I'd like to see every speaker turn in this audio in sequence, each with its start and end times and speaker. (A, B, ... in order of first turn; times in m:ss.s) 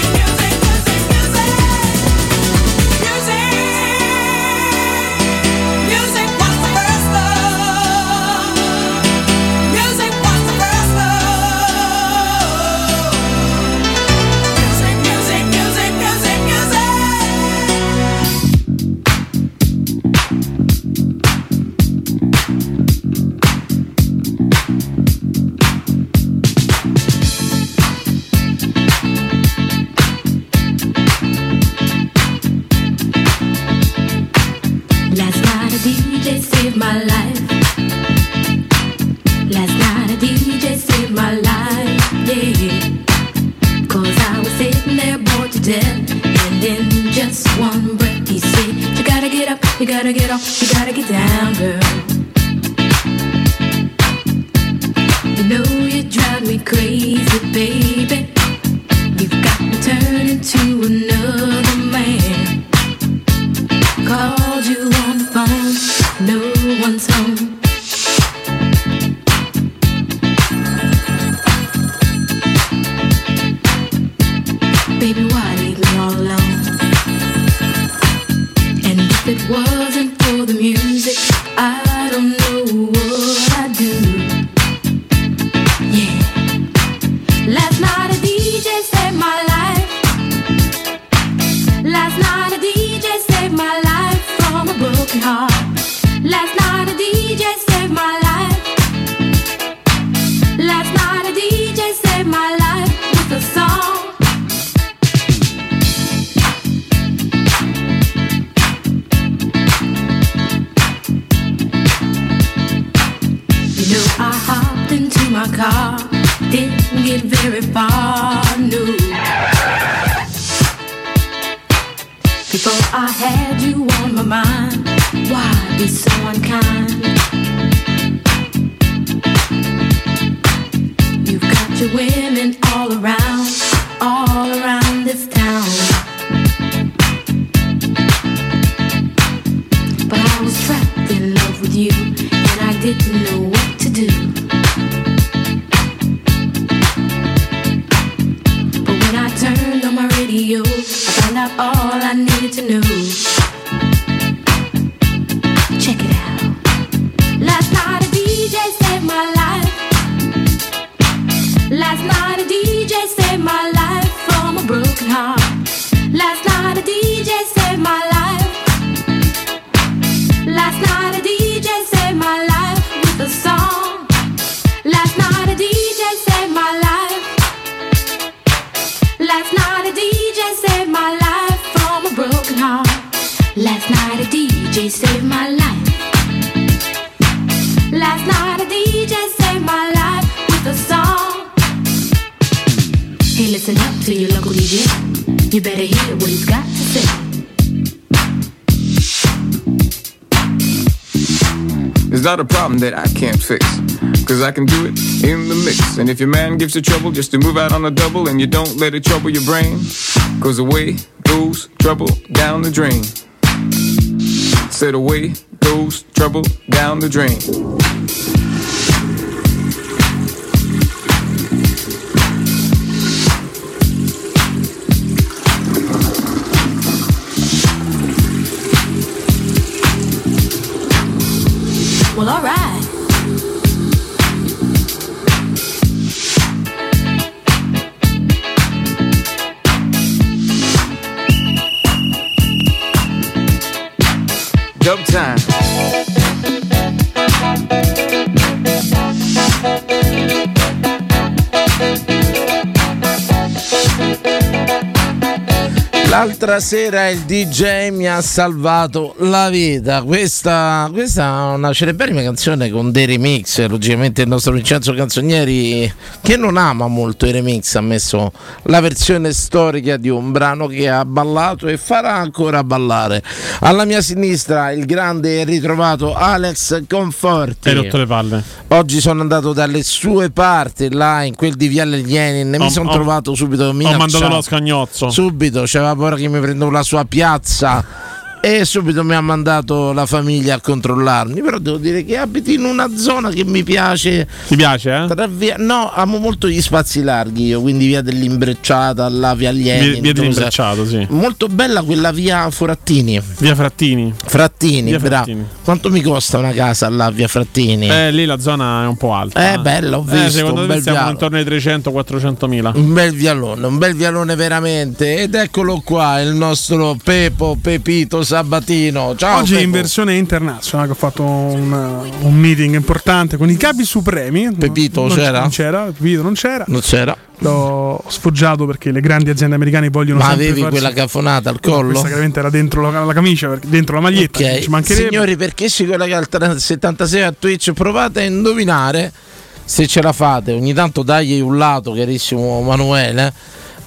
0:35.1-0:37.6 A
0:39.5-0:42.9 A
0:43.9-0:52.2 A
0:55.3-0:58.3 A
0:59.1-1:02.6 A
1:04.0-1:07.6 A
1:15.0-1:16.8 A
1:18.8-1:24.4 A
1:25.9-1:26.5 A
1:27.4-1:30.0 A
1:31.8-1:38.8 A
1:40.6-1:44.2 A
1:53.8-1:59.2 A
2:02.5-2:07.1 A
2:11.2-2:16.0 A
2:20.1-2:24.4 A
2:28.8-2:33.3 A
2:35.8-2:36.6 A
2:37.4-2:39.9 A
2:41.7-2:48.6 A
2:50.4-2:54.1 A
2:54.8-2:57.4 A
2:59.2-3:06.0 A
3:07.9-3:11.5 A
3:13.3-3:15.0 A
3:15.5-3:17.4 A
3:22.1-3:33.2 B
3:34.7-3:37.5 B
3:52.1-3:52.9 A
4:04.8-4:05.5 B
4:16.0-4:38.0 C
4:37.7-4:38.5 D
4:38.7-4:44.5 C
4:42.6-4:43.1 D
4:43.8-4:45.2 D
4:45.1-4:47.9 C
4:48.4-4:54.3 C
4:54.5-4:55.1 D
4:55.1-5:00.5 C
4:59.7-5:01.1 D
5:01.1-5:03.3 C
5:03.4-5:04.2 D
5:04.2-5:08.0 C
5:04.9-5:05.5 D
5:07.9-5:12.8 D
5:09.4-5:11.2 C
5:12.7-5:19.9 C
5:19.3-5:26.7 E
5:24.6-5:25.6 C
5:26.7-5:27.4 C
5:27.4-5:30.9 E
5:30.1-5:32.2 C
5:31.7-5:35.2 E
5:34.1-5:39.2 C
5:39.7-5:43.4 C